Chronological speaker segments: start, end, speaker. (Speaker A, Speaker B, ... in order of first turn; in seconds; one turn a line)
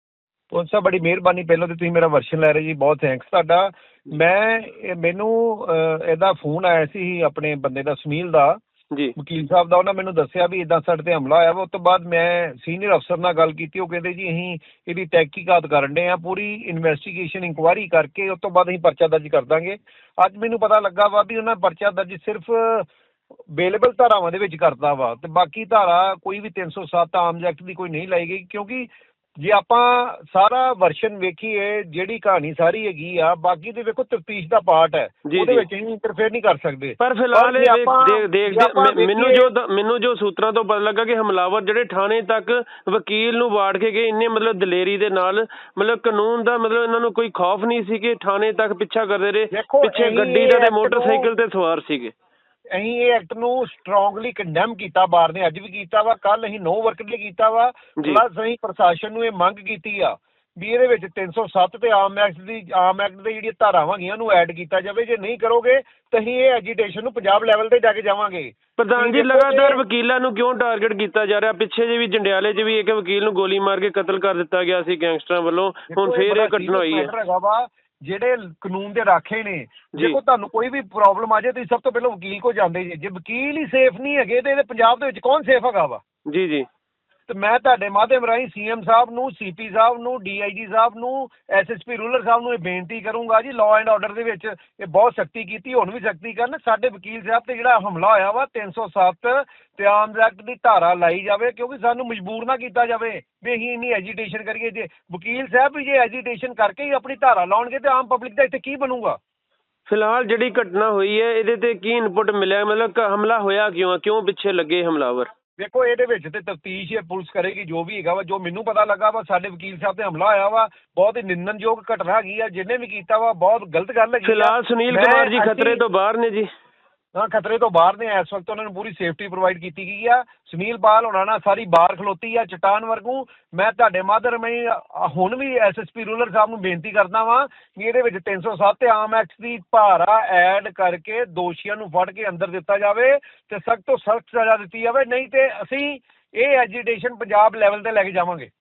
Speaker A: 0.5-8.6
Speaker A: 9.2-22.9
Speaker A: 23.5-39.5
Speaker B: 35.3-35.6
Speaker B: 37.0-52.1
Speaker A: 49.5-51.3
Speaker A: 52.7-69.8
Speaker B: 68.8-77.1
Speaker A: 75.9-86.0
Speaker B: 86.3-86.7
Speaker A: 87.3-109.2
Speaker B: 109.9-115.3
Speaker A: 115.6-125.8
Speaker B: 124.2-126.5
Speaker A: 127.1-148.5